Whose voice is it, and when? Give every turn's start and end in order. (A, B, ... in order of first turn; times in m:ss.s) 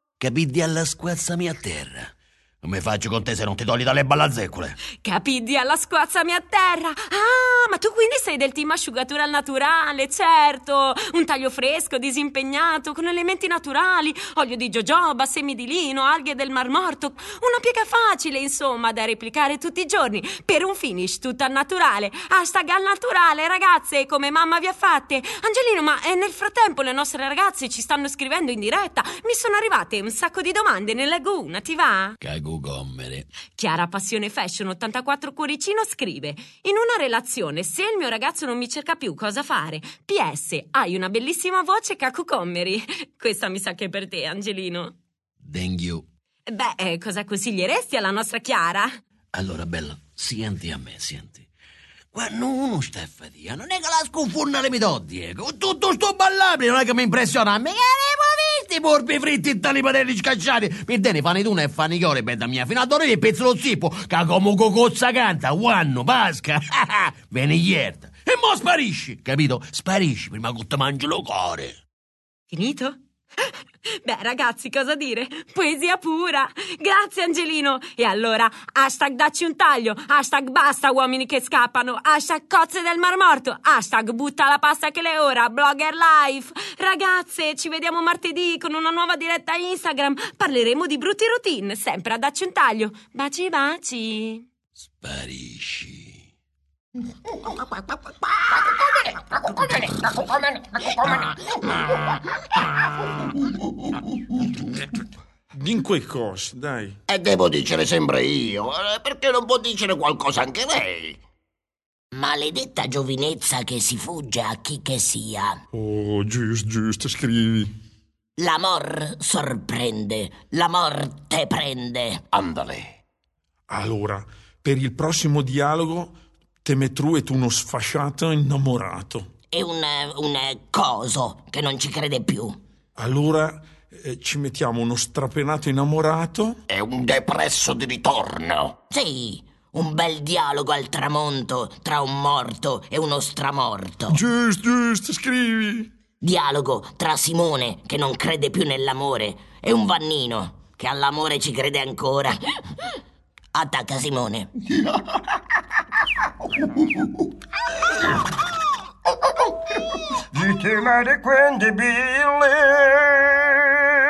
0:00.2-0:04.8 A
0:05.0-0:32.2 B
0:32.2-0:33.3 A
0:33.5-0:44.9 B
0:45.4-0:46.0 A
0:46.5-0:49.0 B
0:49.3-0:51.5 A
0:52.1-1:11.8 A
1:12.5-1:34.4 B
1:34.8-1:36.3 A
1:39.6-1:41.3 C
1:45.5-1:47.0 D
1:47.1-1:51.2 C
1:52.1-1:55.6 E
1:55.7-1:57.7 D
1:58.4-2:02.2 E
2:02.3-2:03.0 C
2:03.7-2:09.3 D
2:09.5-2:12.6 E
2:13.0-2:16.6 D
2:16.7-2:18.8 C
2:18.9-2:24.2 E
2:24.1-2:25.9 D
2:26.2-2:32.4 E
2:33.5-2:34.5 E
2:40.3-2:43.6 F